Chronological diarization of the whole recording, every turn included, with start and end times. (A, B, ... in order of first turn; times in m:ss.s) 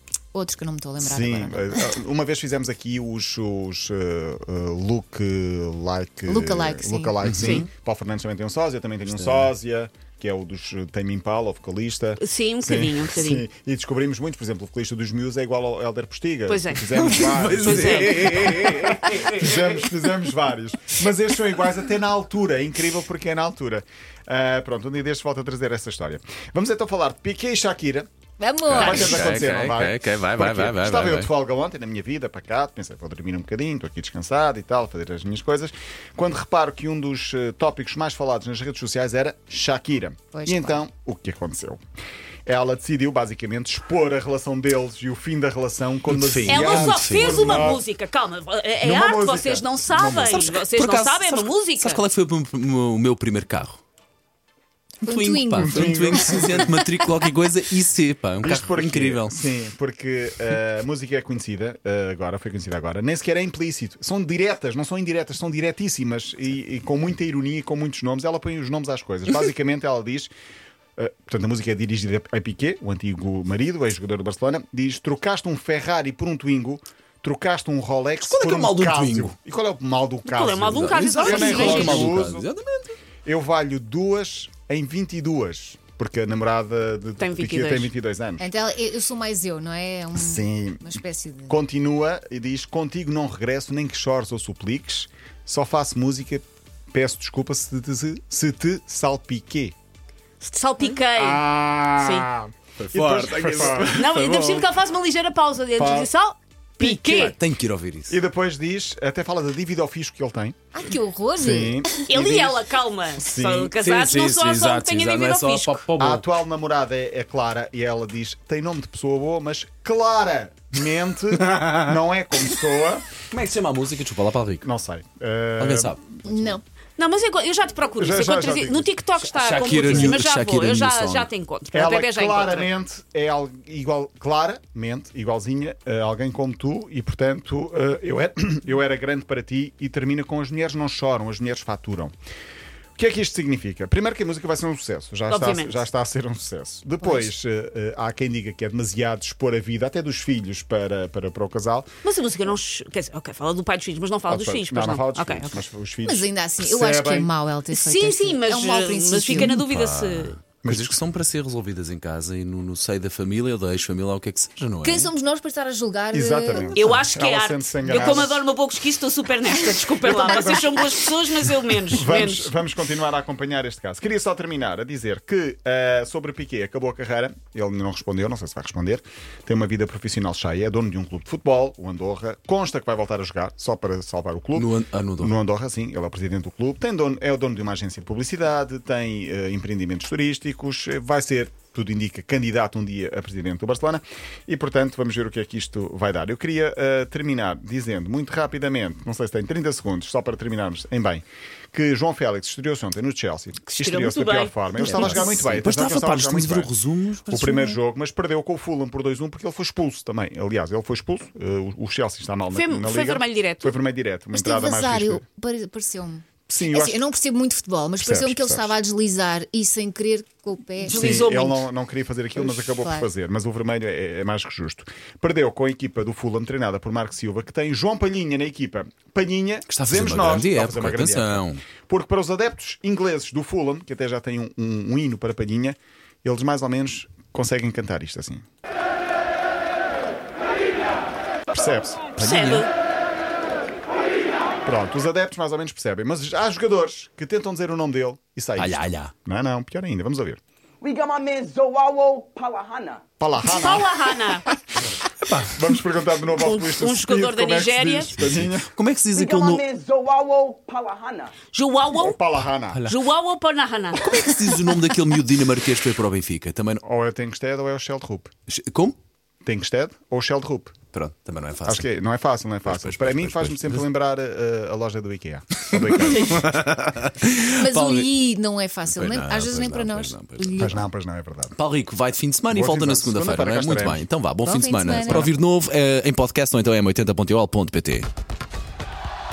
0:00.3-0:01.8 A
0:01.0-0:28.1 B
0:06.3-0:07.2 A
0:07.2-0:07.6 C
0:07.3-0:07.7 D
0:09.1-0:09.5 C
0:12.2-0:13.4 D
0:16.5-0:16.9 D
0:16.9-0:19.8 C
0:17.5-0:19.1 D
0:28.4-0:29.4 A
0:28.6-0:31.3 C
0:28.8-0:29.2 D
0:28.8-0:41.8 B
0:40.3-0:40.8 A
0:42.4-0:47.8 B
0:46.1-0:47.7 C
0:46.4-0:52.0 D
0:48.8-0:50.4 B
0:50.2-0:53.8 C
0:55.0-0:56.8 A
0:55.0-0:59.3 C
0:55.6-0:56.7 B
0:58.4-1:10.3 B
1:11.0-1:22.5 B
1:18.2-1:19.3 C
1:20.2-1:22.1 D
1:20.7-1:23.0 C
1:21.3-1:22.1 A
1:23.2-1:28.5 B
1:27.2-1:27.9 D
1:28.4-1:31.6 A
1:30.1-1:39.7 B
1:40.4-1:41.4 D
1:41.0-1:44.0 B
1:42.0-1:42.3 D
1:42.8-1:44.7 C
1:43.9-1:47.4 D
1:45.8-1:46.1 B
1:46.8-1:47.4 B
1:47.2-1:48.2 C
1:48.1-1:50.7 B
1:50.7-1:51.9 A
1:51.4-1:52.6 B
1:52.0-1:55.8 D
1:53.2-1:53.8 B
1:53.8-1:56.2 C
1:56.0-2:03.0 B
2:01.4-2:01.9 C
2:03.3-2:04.6 C
2:04.6-2:06.5 B
2:05.6-2:06.0 C
2:06.2-2:06.6 A
2:07.0-2:12.7 D
2:08.0-2:08.9 B
2:09.2-2:11.3 C
2:11.7-2:22.1 B
2:23.0-2:31.9 B
2:25.3-2:25.8 D
2:27.0-2:27.3 A
2:32.0-2:35.5 D
2:34.3-2:37.3 B
2:36.0-2:39.6 A
2:37.7-2:40.4 D
2:39.3-2:45.1 C
2:40.6-2:41.0 B
2:44.8-2:46.9 A
2:46.1-2:48.4 B
2:46.7-2:52.5 D
2:50.0-2:50.7 B
2:51.9-3:26.7 B
3:04.5-3:05.3 C
3:23.7-3:24.6 D
3:24.8-3:27.8 C
3:24.8-3:25.4 A
3:27.3-3:35.2 B
3:32.5-3:33.8 D
3:34.3-3:41.3 A
3:36.5-3:37.1 B
3:38.0-3:38.7 B
3:40.8-3:41.7 D
3:40.9-3:58.4 B
3:42.3-3:43.1 A
3:49.7-3:51.6 C
4:01.5-4:02.1 B
4:02.2-4:02.7 C
4:02.2-4:02.7 D
4:04.6-4:10.4 B
4:08.6-4:09.1 C
4:10.8-4:13.0 E
4:13.2-4:14.0 B
4:13.4-4:14.5 D
4:15.4-4:18.7 B
4:16.3-4:18.2 D
4:18.2-4:19.6 C
4:19.2-4:21.3 E
4:21.5-4:22.2 D
4:21.9-4:22.8 B
4:22.8-4:24.3 D
4:24.0-4:26.8 C
4:26.8-4:28.3 B
4:28.5-4:29.0 C
4:29.4-4:30.8 B
4:30.9-4:31.8 C
4:31.6-4:36.6 B
4:32.6-4:33.8 C
4:35.7-4:38.2 C
4:37.5-4:40.8 A
4:38.8-4:40.7 C
4:40.6-4:41.6 B
4:41.6-4:48.1 C
4:42.5-4:44.1 B
4:44.4-4:45.3 A